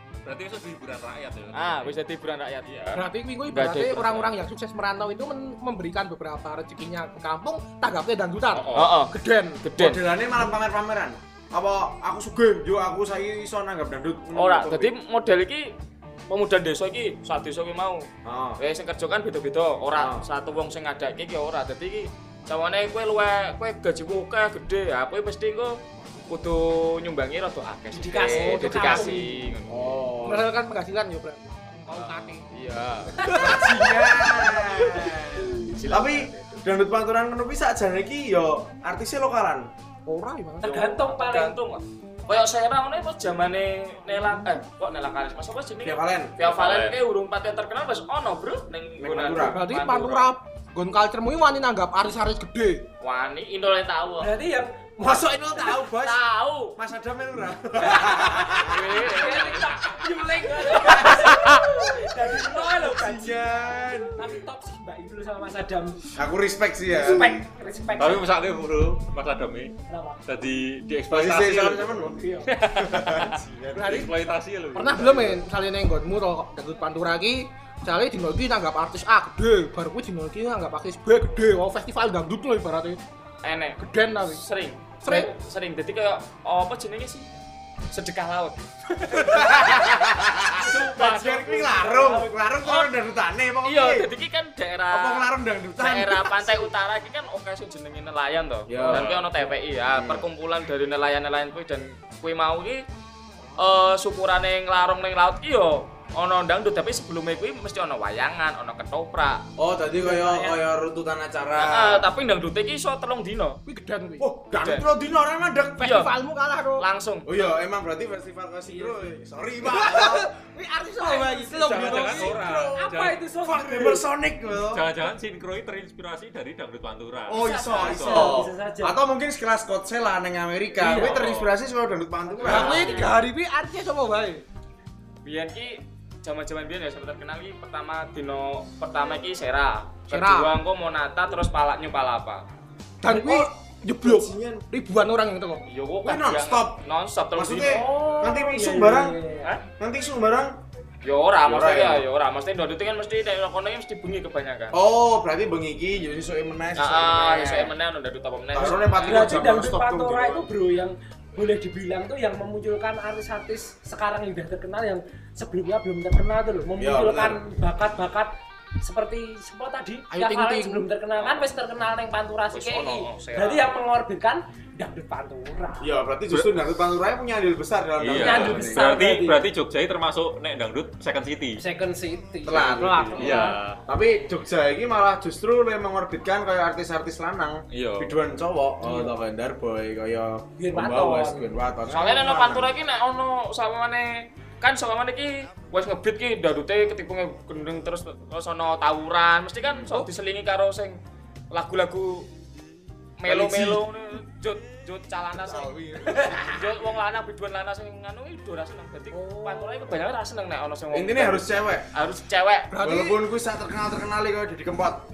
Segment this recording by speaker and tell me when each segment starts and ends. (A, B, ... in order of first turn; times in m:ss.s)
0:00.2-0:01.9 A
0:01.5-0:02.7 B
0:02.6-0:03.0 A
0:02.9-0:09.6 C
0:03.5-0:04.3 B
0:08.5-0:08.9 A
0:08.7-0:10.0 B
0:09.8-0:14.9 D
0:14.3-0:15.7 B
0:16.3-0:18.1 B
0:18.2-0:18.6 D
0:18.6-0:25.8 B
0:19.9-0:20.2 D
0:26.3-0:30.1 B
0:27.9-0:29.3 E
0:28.3-0:29.2 C
0:29.7-0:30.5 D
0:30.2-0:32.4 C
0:31.9-0:33.3 B
0:33.1-0:35.7 C
0:33.3-0:39.7 D
0:35.5-0:36.6 B
0:40.1-0:40.7 C
0:40.6-0:41.6 E
0:40.6-0:50.3 B
0:45.8-0:46.3 D
0:46.4-0:47.0 A
0:49.0-0:49.6 D
0:49.5-0:52.8 C
0:53.0-0:54.3 B
0:54.2-0:55.5 E
0:55.0-0:56.2 D
0:56.0-0:56.8 B
0:56.8-0:59.1 D
0:58.0-1:03.6 E
0:58.3-0:59.9 B
1:01.0-1:01.3 D
1:01.0-1:01.6 B
1:02.5-1:04.4 D
1:04.1-1:06.2 E
1:06.2-1:07.4 D
1:06.9-1:08.3 E
1:08.0-1:09.7 A
1:09.9-1:10.2 E
1:10.2-1:11.9 A
1:11.1-1:14.1 D
1:11.9-1:12.7 E
1:12.5-1:13.3 B
1:13.0-1:15.4 A
1:13.7-1:14.2 C
1:14.7-1:23.0 C
1:23.4-1:27.3 B
1:23.8-1:24.4 C
1:25.0-1:25.3 C
1:27.9-1:29.9 B
1:29.0-1:29.6 E
1:29.2-1:34.1 D
1:30.5-1:31.6 B
1:30.6-1:32.4 E
1:32.6-1:32.9 B
1:33.6-1:42.8 B
1:34.9-1:36.6 D
1:38.7-1:39.2 D
1:38.8-1:39.2 A
1:39.9-1:40.2 D
1:43.6-1:49.4 B
1:49.6-1:52.0 D
1:50.0-1:50.6 C
1:51.6-1:53.6 B
1:53.6-1:54.3 C
1:54.2-1:56.0 D
1:54.6-1:54.8 B
1:55.8-1:56.8 C
1:55.8-1:56.1 B
1:56.8-1:57.3 B
1:57.2-2:00.3 D
1:59.6-2:02.4 C
2:01.0-2:01.7 E
2:01.6-2:03.2 A
2:01.6-2:02.9 D
2:02.7-2:04.0 E
2:03.4-2:04.8 D
2:04.6-2:08.3 A
2:07.3-2:13.1 D
2:07.3-2:09.0 E
2:07.9-2:08.4 C
2:10.8-2:11.1 C
2:10.9-2:11.5 A
2:12.3-2:14.4 C
2:12.4-2:13.1 B
2:12.5-2:13.0 E
2:15.2-2:22.4 B
2:20.1-2:20.5 C
2:23.0-2:25.6 C
2:23.0-2:23.5 E
2:24.0-2:24.6 D
2:25.6-2:27.8 B
2:26.0-2:26.8 D
2:27.4-2:29.2 D
2:27.6-2:29.6 E
2:29.8-2:30.6 D
2:31.0-2:34.8 B
2:31.4-2:32.0 D
2:34.7-2:37.7 D
2:36.8-2:39.4 B
2:38.5-2:40.5 D
2:39.0-2:55.9 E
2:46.8-2:47.4 D
2:50.1-2:50.9 C
2:51.2-2:51.5 B
2:52.5-2:53.7 B
2:55.8-2:58.9 D
2:58.0-3:01.6 A
2:58.1-2:59.4 E
3:01.6-3:03.6 E
3:02.4-3:12.7 D
3:03.2-3:03.8 A
3:03.3-3:03.5 C
3:07.7-3:08.1 A
3:08.8-3:09.1 E
3:10.6-3:11.6 E
3:11.9-3:21.0 B
3:19.7-3:20.0 D
3:21.5-3:22.2 B
3:23.2-3:25.7 B
3:23.2-3:23.8 D
3:25.3-3:26.6 D
3:26.1-3:26.5 E
3:26.4-3:32.7 B
3:29.1-3:30.0 C
3:30.9-3:31.8 D
3:32.7-3:33.2 C
3:32.8-3:35.0 D